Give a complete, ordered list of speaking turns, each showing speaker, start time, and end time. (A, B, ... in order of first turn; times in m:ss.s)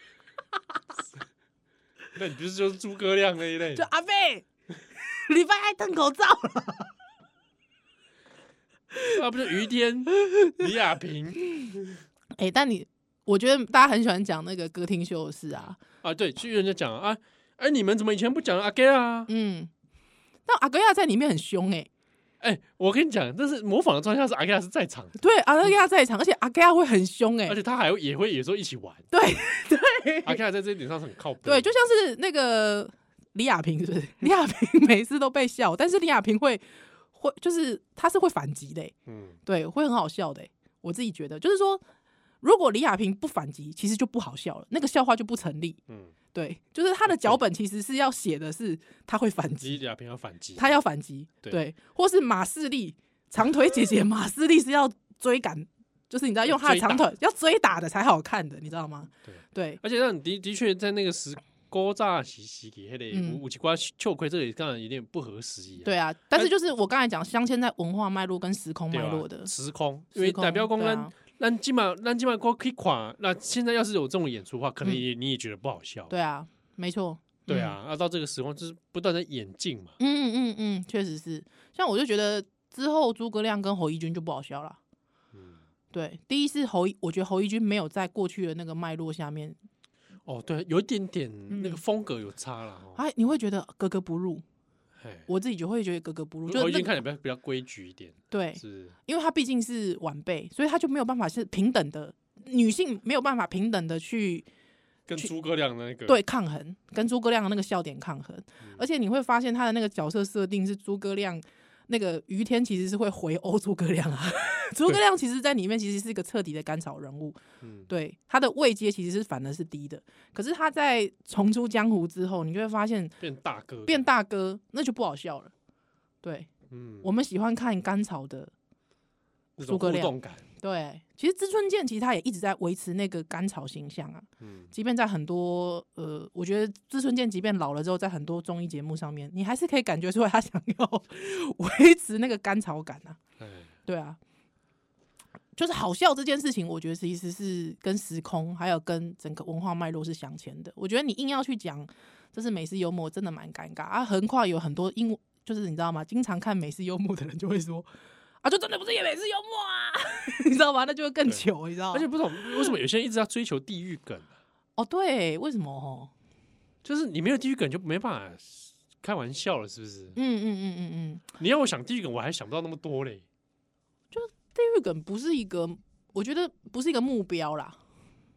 0:02.2-0:03.9 A
0:03.7-0:06.9 B
0:09.1-0:12.0 A
0:12.4-0:15.8 B
0:15.9-0:19.3 A
0:19.3-0:19.7 B
0:20.5-0:21.9 B
0:22.4-0:25.2 A
0:25.2-0:27.6 B
0:27.5-0:29.0 A
0:29.1-0:30.4 B
0:30.2-0:31.8 A
0:31.4-0:38.9 B
0:39.1-0:39.4 A
0:39.4-0:41.8 B
0:42.4-0:45.8 B
0:45.9-0:46.1 A
0:46.3-0:49.8 B
0:47.1-0:47.4 A
0:49.6-0:50.8 A
0:50.6-0:59.8 B
0:56.5-0:57.1 A
0:59.2-1:06.5 A
1:03.1-1:03.4 B
1:05.8-1:09.5 B
1:08.9-1:16.2 A
1:10.2-1:11.1 B
1:16.1-1:17.8 B
1:17.5-1:20.0 A
1:20.0-1:24.8 B
1:25.3-1:25.6 A
1:25.9-1:29.6 B
1:30.2-1:33.0 A
1:31.5-1:31.8 B
1:33.0-1:34.4 B
1:35.0-1:35.3 A
1:35.3-1:36.9 B
1:36.5-1:39.0 A
1:38.3-1:44.5 B
1:45.1-1:46.2 A
1:46.1-1:57.4 B
1:48.6-1:48.8 A
1:57.6-1:57.9 A
1:57.9-2:03.2 B
2:03.2-2:04.1 A
2:03.9-2:05.5 B
2:06.2-2:06.5 B
2:06.7-2:07.1 A
2:07.0-2:08.5 B
2:09.6-2:10.4 A
2:09.6-2:23.2 B
2:14.4-2:14.7 A
2:23.4-2:23.7 A
2:23.9-2:24.2 B
2:25.6-2:37.9 B
2:38.4-2:42.7 B
2:41.3-2:44.3 A
2:44.8-2:46.1 B
2:46.8-2:50.2 A
2:50.2-2:51.3 B
2:51.4-2:53.2 A
2:54.1-2:57.8 B